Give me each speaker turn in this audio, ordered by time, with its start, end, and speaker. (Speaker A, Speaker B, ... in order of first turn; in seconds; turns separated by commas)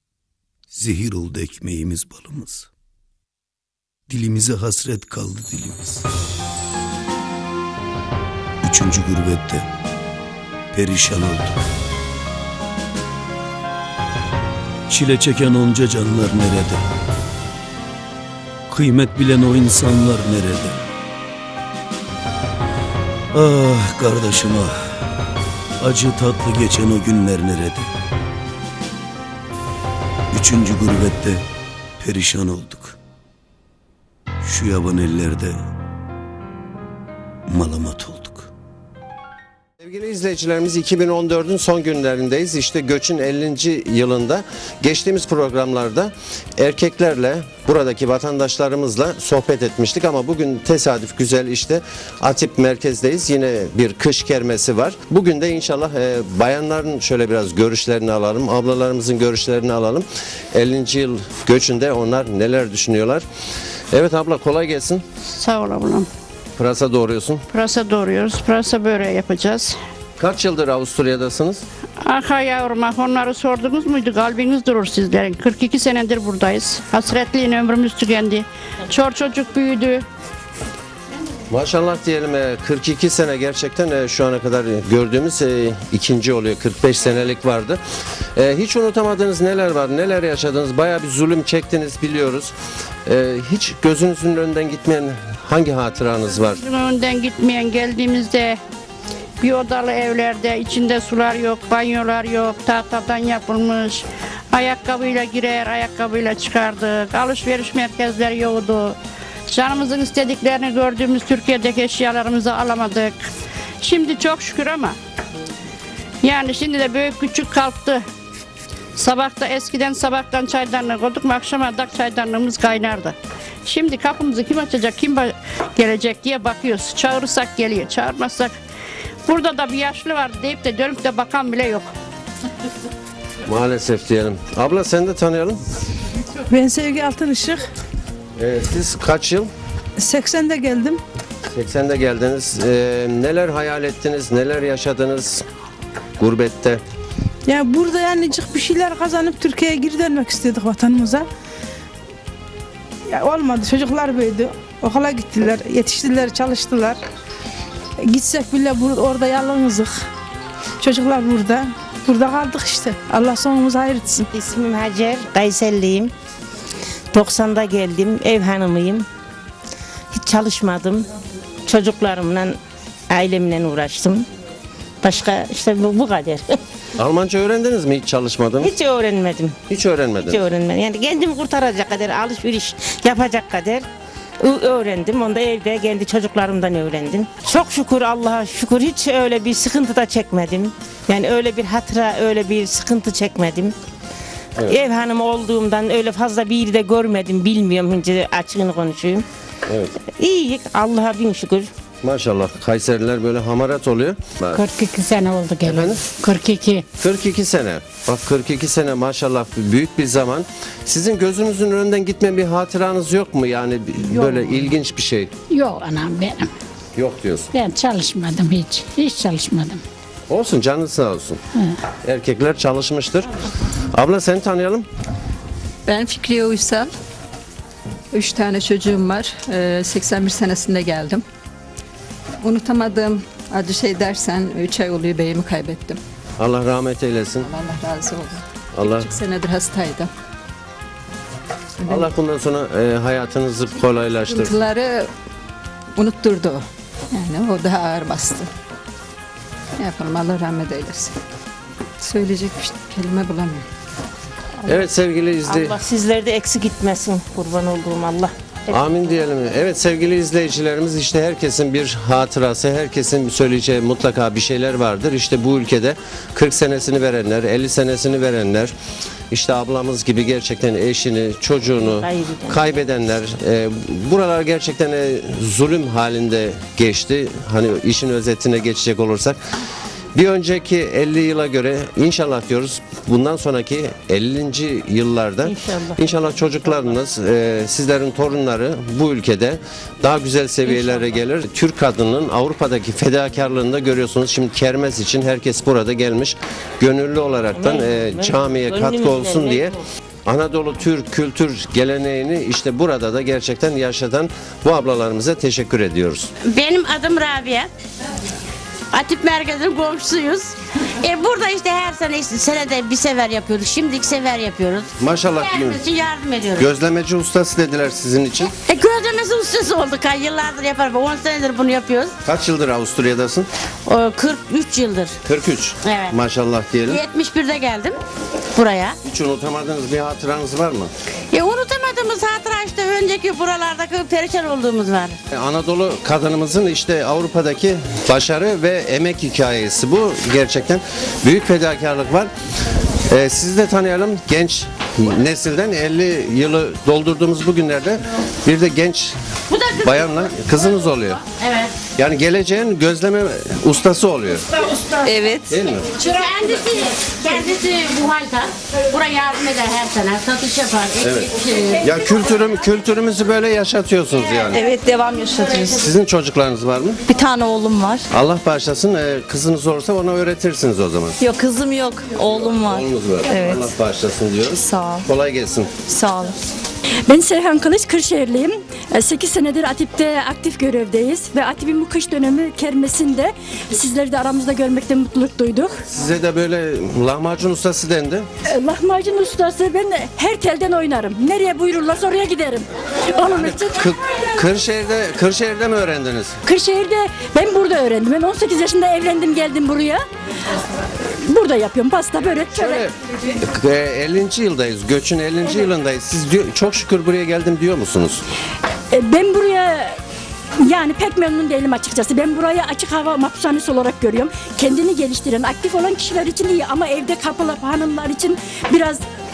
Speaker A: 0.7-2.7, Speaker A: 4.1-6.0, Speaker A: 8.6-9.7, Speaker A: 10.7-11.6, Speaker A: 14.9-16.9, Speaker A: 18.7-20.8, Speaker A: 23.3-25.1, Speaker A: 25.8-27.9, Speaker A: 30.3-31.4, Speaker A: 32.0-33.0, Speaker A: 34.4-35.7, Speaker A: 37.5-38.5, Speaker B: 39.8-63.2, Speaker B: 63.9-65.0, Speaker C: 65.3-66.1, Speaker B: 66.6-67.4, Speaker C: 67.5-69.8, Speaker B: 70.2-71.6, Speaker C: 72.0-80.0, Speaker B: 81.5-87.8, Speaker B: 88.3-92.5, Speaker B: 93.0-96.6, Speaker C: 96.6-98.6, Speaker C: 99.4-109.0, Speaker C: 109.5-113.2, Speaker C: 113.8-114.9, Speaker C: 116.2-118.0, Speaker C: 119.0-123.1, Speaker C: 123.7-128.5, Speaker C: 129.2-131.9, Speaker B: 133.4-135.6, Speaker D: 136.5-137.6, Speaker B: 138.4-139.5, Speaker D: 140.0-141.0, Speaker B: 141.5-145.4, Speaker B: 146.2-146.8, Speaker D: 147.4-151.2, Speaker D: 153.1-157.0, Speaker D: 158.0-160.0, Speaker D: 160.8-164.3, Speaker E: 164.3-166.1, Speaker E: 167.1-169.1, Speaker E: 170.1-171.1, Speaker E: 171.7-172.6, Speaker E: 173.1-174.3, Speaker E: 175.0-176.6, Speaker B: 177.0-178.7, Speaker E: 178.6-179.6, Speaker B: 179.7-180.4, Speaker E: 180.2-183.9, Speaker E: 184.4-193.7, Speaker E: 194.7-199.2, Speaker B: 199.7-199.9, Speaker E: 200.2-201.7, Speaker B: 202.0-204.7, Speaker F: 204.5-206.8, Speaker B: 205.6-206.1, Speaker B: 207.0-215.3, Speaker F: 215.5-216.5, Speaker B: 216.9-217.5, Speaker F: 217.5-219.8, Speaker B: 220.3-221.4, Speaker B: 222.0-223.3, Speaker B: 223.9-224.9, Speaker G: 225.9-226.9, Speaker G: 228.1-231.2, Speaker G: 232.4-236.0, Speaker B: 236.4-237.4, Speaker G: 237.4-240.1, Speaker B: 238.8-239.1, Speaker G: 241.8-242.1, Speaker B: 241.9-244.5, Speaker G: 244.3-245.1, Speaker G: 245.9-248.5, Speaker G: 249.8-251.2, Speaker G: 252.0-253.6, Speaker B: 254.7-255.8, Speaker E: 255.5-258.3, Speaker B: 258.7-268.7, Speaker B: 269.3-279.4, Speaker E: 271.8-272.8, Speaker B: 280.1-306.3, Speaker E: 285.4-286.2, Speaker E: 290.6-291.1, Speaker E: 297.5-299.8, Speaker H: 306.4-307.7, Speaker H: 308.9-314.9, Speaker B: 315.0-315.8, Speaker H: 315.4-316.6, Speaker B: 316.6-318.5, Speaker H: 318.6-322.1, Speaker B: 322.2-323.5, Speaker H: 323.9-325.1, Speaker B: 325.2-327.0, Speaker H: 325.8-326.1, Speaker H: 326.9-328.0, Speaker H: 328.5-328.9, Speaker B: 329.0-330.9, Speaker H: 331.3-335.2, Speaker B: 335.3-342.3, Speaker B: 343.1-349.2, Speaker B: 349.7-351.2, Speaker H: 351.2-351.8, Speaker B: 351.9-354.4, Speaker I: 355.0-355.6, Speaker B: 355.5-355.9, Speaker H: 355.9-361.9, Speaker B: 361.0-364.6, Speaker I: 364.5-365.8, Speaker B: 365.7-367.0, Speaker I: 367.1-368.1, Speaker B: 368.1-371.2, Speaker I: 371.2-373.8, Speaker B: 372.1-375.7, Speaker I: 374.5-375.1, Speaker I: 375.9-376.3, Speaker J: 377.1-385.7, Speaker B: 385.9-388.3, Speaker J: 388.5-393.8, Speaker B: 393.2-396.4, Speaker J: 396.4-400.0, Speaker J: 401.3-402.9, Speaker B: 402.5-408.2, Speaker J: 408.9-409.9, Speaker J: 410.6-419.0